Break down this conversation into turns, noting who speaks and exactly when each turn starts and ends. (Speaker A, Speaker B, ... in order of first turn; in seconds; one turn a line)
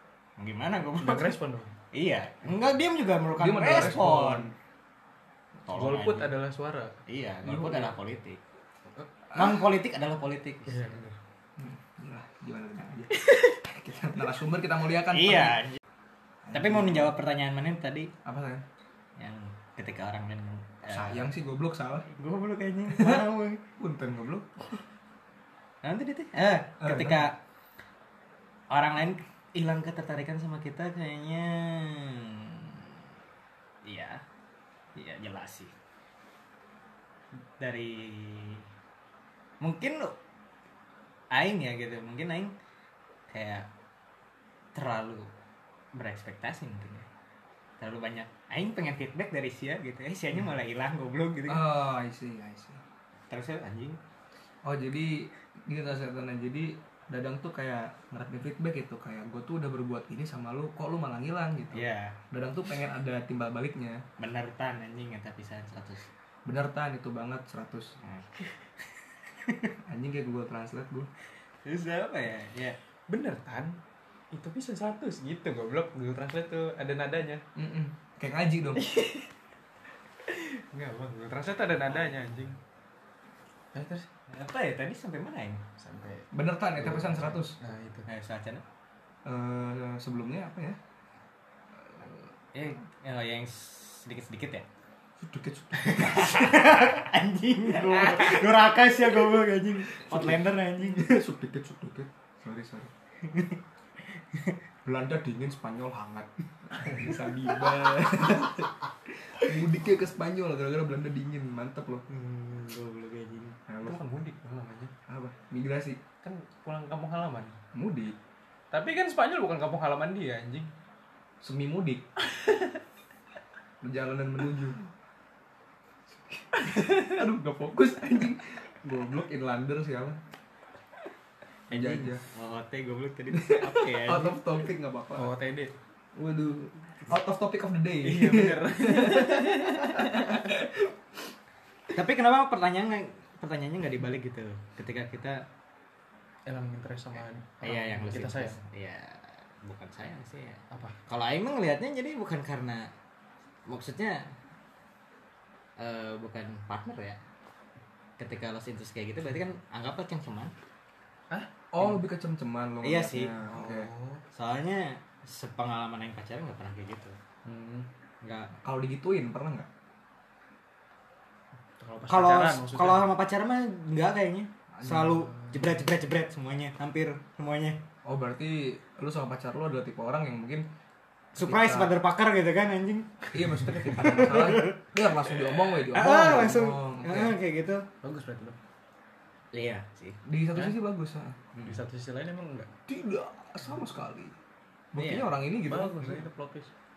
Speaker A: 0.4-1.4
Speaker B: 1.0-1.7
Speaker A: 1.9-4.5
Speaker C: 3.4-4.5
Speaker A: 5.6-6.3
Speaker B: 5.7-7.0
Speaker A: 7.1-8.4
Speaker C: 7.5-7.9
Speaker A: 9.3-11.0
Speaker B: 10.7-11.2
Speaker C: 11.6-15.7
Speaker A: 15.1-15.8
Speaker C: 16.4-17.1
Speaker A: 16.5-18.1
Speaker C: 18.2-18.6
Speaker A: 19.2-21.3
Speaker C: 20.9-22.1
Speaker A: 22.1-23.6
Speaker C: 22.9-23.2
Speaker C: 23.8-24.5
Speaker A: 25.8-27.4
Speaker C: 26.8-27.3
Speaker A: 28.7-32.9
Speaker A: 33.8-34.2
Speaker A: 34.9-35.7
Speaker A: 37.6-38.6
Speaker A: 39.6-40.1
Speaker A: 41.3-42.5
Speaker A: 43.3-43.7
Speaker A: 44.7-45.3
Speaker A: 45.9-47.1
Speaker A: 47.8-51.7
Speaker C: 51.5-52.8
Speaker A: 53.3-54.0
Speaker C: 54.6-64.0
Speaker A: 61.7-62.2
Speaker A: 64.2-66.1
Speaker C: 66.5-67.9
Speaker A: 68.0-68.3
Speaker A: 69.4-69.7
Speaker C: 69.9-71.1
Speaker A: 71.6-72.8
Speaker B: 73.1-73.8
Speaker B: 74.3-77.4
Speaker C: 77.5-78.9
Speaker B: 78.8-79.2
Speaker B: 80.2-82.6
Speaker A: 81.9-82.2
Speaker B: 83.7-84.1
Speaker A: 84.3-85.6
Speaker B: 85.8-88.1
Speaker C: 86.3-87.6
Speaker A: 88.1-88.6
Speaker C: 89.2-90.8
Speaker C: 91.9-92.2
Speaker A: 92.5-94.7
Speaker C: 95.2-96.9
Speaker A: 95.8-101.2
Speaker C: 97.9-98.4
Speaker C: 100.0-102.9
Speaker A: 103.2-104.6
Speaker C: 104.8-108.7
Speaker C: 109.3-112.0
Speaker A: 112.1-113.6
Speaker C: 113.7-114.0
Speaker B: 113.8-114.9
Speaker C: 115.1-116.0
Speaker B: 116.2-117.6
Speaker C: 117.7-118.1
Speaker B: 118.7-120.7
Speaker C: 121.4-122.0
Speaker B: 122.3-122.7
Speaker C: 123.8-124.8
Speaker C: 126.3-130.2
Speaker B: 126.5-127.2
Speaker C: 131.7-132.2
Speaker A: 131.7-134.4
Speaker C: 133.3-135.3
Speaker B: 135.1-135.7
Speaker C: 136.2-140.9
Speaker B: 138.0-140.4
Speaker A: 141.9-145.4
Speaker B: 146.5-148.6
Speaker A: 147.6-152.9
Speaker B: 150.7-150.9
Speaker A: 153.7-154.3
Speaker A: 155.8-157.2
Speaker A: 158.2-160.5
Speaker B: 161.3-161.9
Speaker C: 161.7-163.9
Speaker A: 162.8-163.3
Speaker B: 163.5-164.2
Speaker A: 164.3-167.2
Speaker B: 167.4-167.9
Speaker A: 168.2-168.5
Speaker C: 168.6-169.7
Speaker B: 171.8-173.1
Speaker A: 172.1-177.8
Speaker C: 174.7-175.3
Speaker B: 175.4-175.7
Speaker C: 178.0-180.6
Speaker C: 181.3-182.0
Speaker A: 181.3-184.8
Speaker C: 183.3-187.4
Speaker A: 185.8-187.8
Speaker B: 188.0-188.6
Speaker A: 189.5-190.2
Speaker C: 190.2-191.5
Speaker B: 191.6-192.7
Speaker C: 192.9-194.3
Speaker C: 194.9-196.2
Speaker A: 194.9-195.3
Speaker B: 195.7-196.7